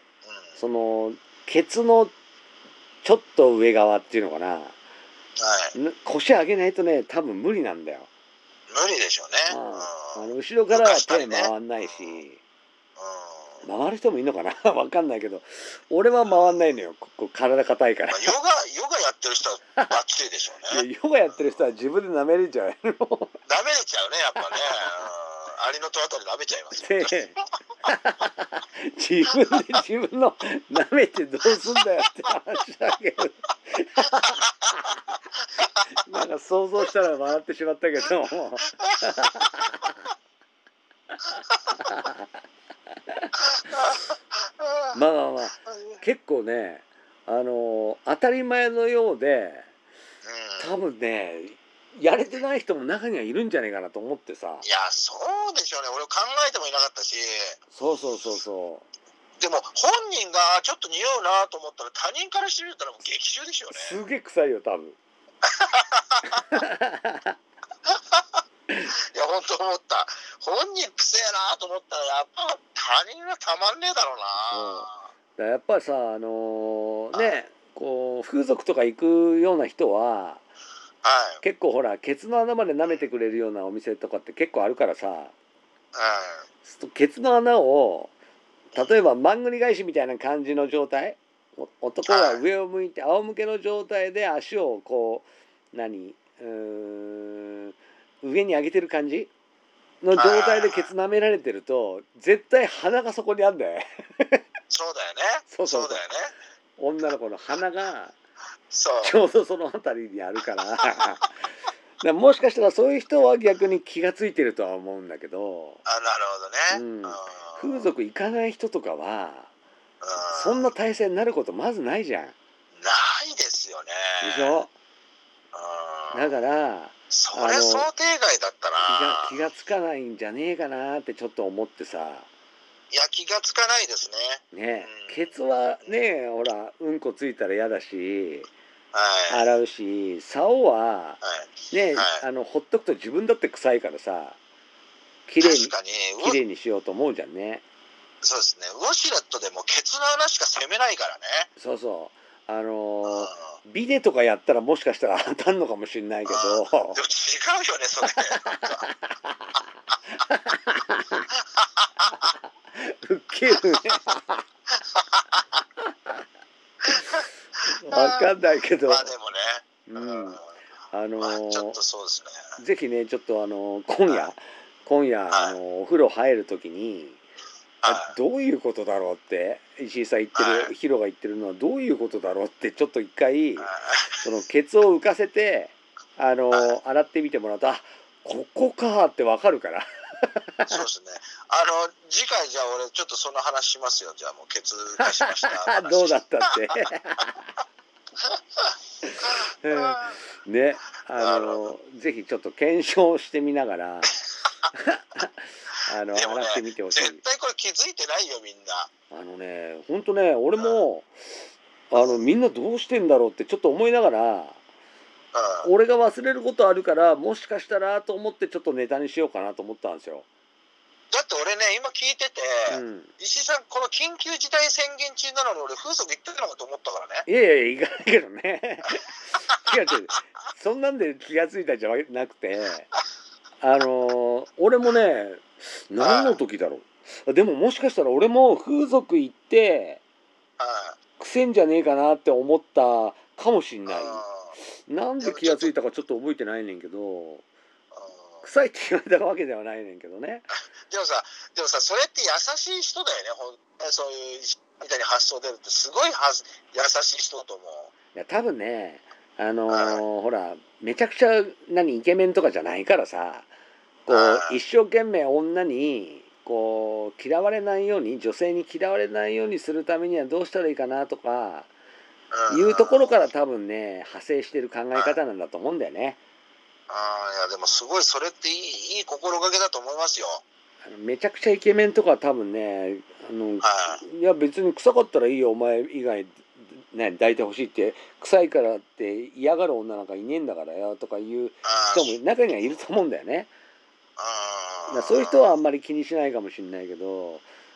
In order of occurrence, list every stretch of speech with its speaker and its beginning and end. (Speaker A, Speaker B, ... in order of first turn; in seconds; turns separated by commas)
Speaker A: 0.2-0.6, Speaker B: 0.6-2.1, Speaker B: 3.0-4.8, Speaker A: 5.4-5.7, Speaker B: 5.8-8.1, Speaker A: 8.7-12.2, Speaker B: 9.5-12.4, Speaker A: 13.0-13.6, Speaker B: 13.6-18.4, Speaker A: 18.1-21.6, Speaker B: 20.7-23.4, Speaker A: 23.5-27.1, Speaker B: 24.4-25.1, Speaker B: 26.8-34.9, Speaker B: 36.0-39.9, Speaker B: 41.7-42.3, Speaker A: 43.7-44.0, Speaker A: 44.6-45.0, Speaker B: 44.9-49.7, Speaker A: 45.7-46.0, Speaker A: 50.2-50.8, Speaker B: 50.6-54.6, Speaker A: 54.6-57.6, Speaker B: 57.7-58.9, Speaker A: 59.4-64.0, Speaker B: 63.7-65.0, Speaker A: 65.5-66.4, Speaker B: 66.3-67.3, Speaker A: 67.9-68.4, Speaker A: 69.1-75.0, Speaker B: 74.5-80.4, Speaker A: 81.0-81.4, Speaker B: 81.4-85.3, Speaker A: 85.9-86.4, Speaker B: 86.7-88.1, Speaker B: 88.7-99.3, Speaker A: 92.1-92.4, Speaker B: 100.0-104.4, Speaker A: 100.2-100.9, Speaker A: 104.7-106.3, Speaker B: 105.5-106.2, Speaker B: 106.8-108.2, Speaker A: 108.7-109.2, Speaker B: 109.0-111.4, Speaker B: 112.0-115.8, Speaker A: 115.9-117.9, Speaker B: 116.7-119.5, Speaker A: 120.0-120.7, Speaker B: 120.3-122.3, Speaker A: 122.8-124.6, Speaker B: 124.2-124.7, Speaker A: 125.5-126.3, Speaker B: 126.1-127.9, Speaker A: 127.1-129.4, Speaker B: 128.8-132.3, Speaker A: 132.9-136.0, Speaker B: 134.5-138.5, Speaker A: 138.9-139.5, Speaker B: 139.3-141.2, Speaker A: 141.2-142.2, Speaker B: 141.7-144.4, Speaker B: 145.3-147.6, Speaker A: 145.4-146.4, Speaker A: 148.2-151.5, Speaker B: 151.6-157.0, Speaker A: 153.1-153.5, Speaker A: 156.3-158.9, Speaker B: 158.3-161.3, Speaker A: 161.6-161.9, Speaker B: 162.1-164.4, Speaker A: 164.9-165.4, Speaker B: 165.9-166.1, Speaker A: 166.8-167.2, Speaker B: 167.7-169.1, Speaker A: 168.9-170.5, Speaker B: 169.9-170.4, Speaker B: 170.9-171.8, Speaker A: 171.2-172.5, Speaker B: 172.6-177.2, Speaker A: 175.3-175.6, Speaker A: 177.8-178.1, Speaker B: 177.8-190.8, Speaker A: 180.3-180.7, Speaker A: 183.6-184.2, Speaker A: 186.5-186.8, Speaker A: 190.7-196.2, Speaker B: 195.0-197.5, Speaker A: 198.2-198.7, Speaker B: 199.0-204.2, Speaker A: 199.7-200.0, Speaker A: 201.2-201.7, Speaker B: 204.7-207.2, Speaker A: 206.1-208.9, Speaker B: 209.1-211.2, Speaker A: 210.6-210.8, Speaker B: 211.9-214.6, Speaker A: 211.9-212.2, Speaker A: 215.3-215.7, Speaker B: 215.6-220.3, Speaker A: 221.1-227.3, Speaker B: 222.7-223.1, Speaker B: 227.3-232.9, Speaker B: 233.6-240.0, Speaker A: 236.0-236.4, Speaker A: 240.6-241.0, Speaker B: 241.2-244.2, Speaker A: 243.9-244.5, Speaker B: 244.9-247.4, Speaker A: 245.2-245.7, Speaker A: 247.9-248.5, Speaker B: 248.4-250.5, Speaker A: 250.9-257.9, Speaker B: 258.1-263.5, Speaker A: 259.7-260.0, Speaker B: 264.1-271.7, Speaker A: 264.1-264.6, Speaker A: 272.3-273.2, Speaker B: 272.5-276.2, Speaker A: 276.9-280.4, Speaker B: 280.9-293.5, Speaker A: 283.6-284.0, Speaker A: 291.6-292.2, Speaker A: 294.2-295.5, Speaker B: 294.9-297.4